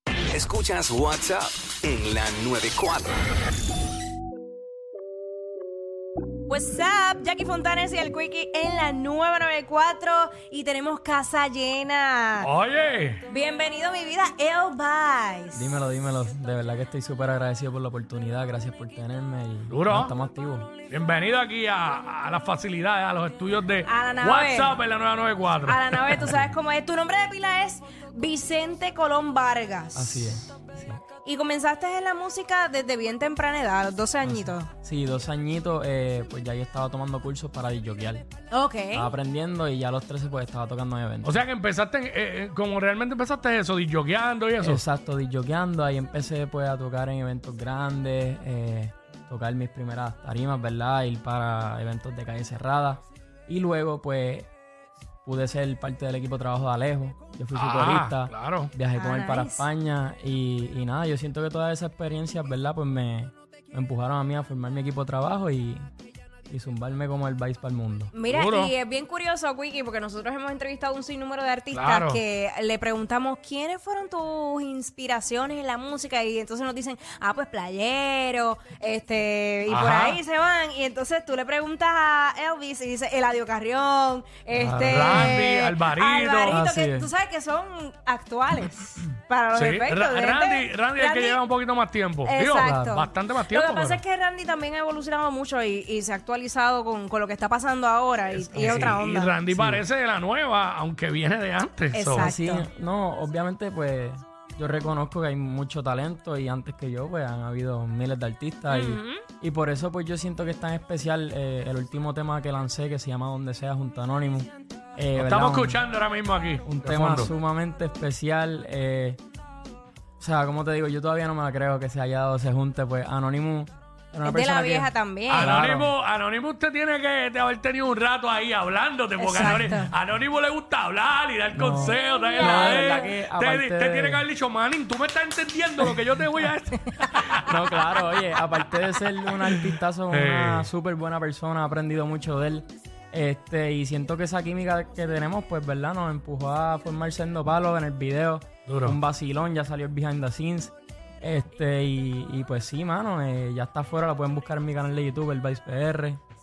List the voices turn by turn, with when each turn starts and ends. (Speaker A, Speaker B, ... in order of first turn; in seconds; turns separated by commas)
Speaker A: 0.3-3.2, Speaker B: 6.5-12.5, Speaker C: 12.4-13.2, Speaker B: 13.3-15.7, Speaker D: 15.5-20.7, Speaker C: 19.7-20.1, Speaker C: 20.9-26.3, Speaker B: 23.9-24.8, Speaker B: 25.7-30.4, Speaker D: 26.1-26.5, Speaker D: 29.9-31.0, Speaker B: 31.2-34.7, Speaker D: 34.2-38.3, Speaker B: 38.5-39.1, Speaker D: 38.9-41.4, Speaker C: 41.2-44.8, Speaker D: 44.6-54.5, Speaker D: 55.2-65.9, Speaker C: 57.5-58.7, Speaker B: 58.9-59.7, Speaker D: 66.5-68.1, Speaker B: 68.1-91.4, Speaker C: 68.3-68.7, Speaker C: 71.7-72.2, Speaker C: 79.7-80.2, Speaker D: 84.5-85.4, Speaker C: 84.8-86.6, Speaker D: 86.5-87.1, Speaker C: 89.5-94.0, Speaker B: 92.2-99.4, Speaker D: 92.6-93.0, Speaker C: 98.3-102.3, Speaker D: 98.6-98.9, Speaker D: 99.5-99.8, Speaker B: 101.9-102.7, Speaker D: 102.2-115.8, Speaker B: 108.7-109.2, Speaker C: 115.2-117.3, Speaker D: 116.7-119.2, Speaker D: 120.2-125.9, Speaker B: 124.2-125.5, Speaker C: 125.3-138.0, Speaker B: 129.2-129.9, Speaker D: 131.5-134.2, Speaker B: 132.1-133.1, Speaker D: 137.4-156.2, Speaker C: 139.4-140.7, Speaker C: 148.7-149.0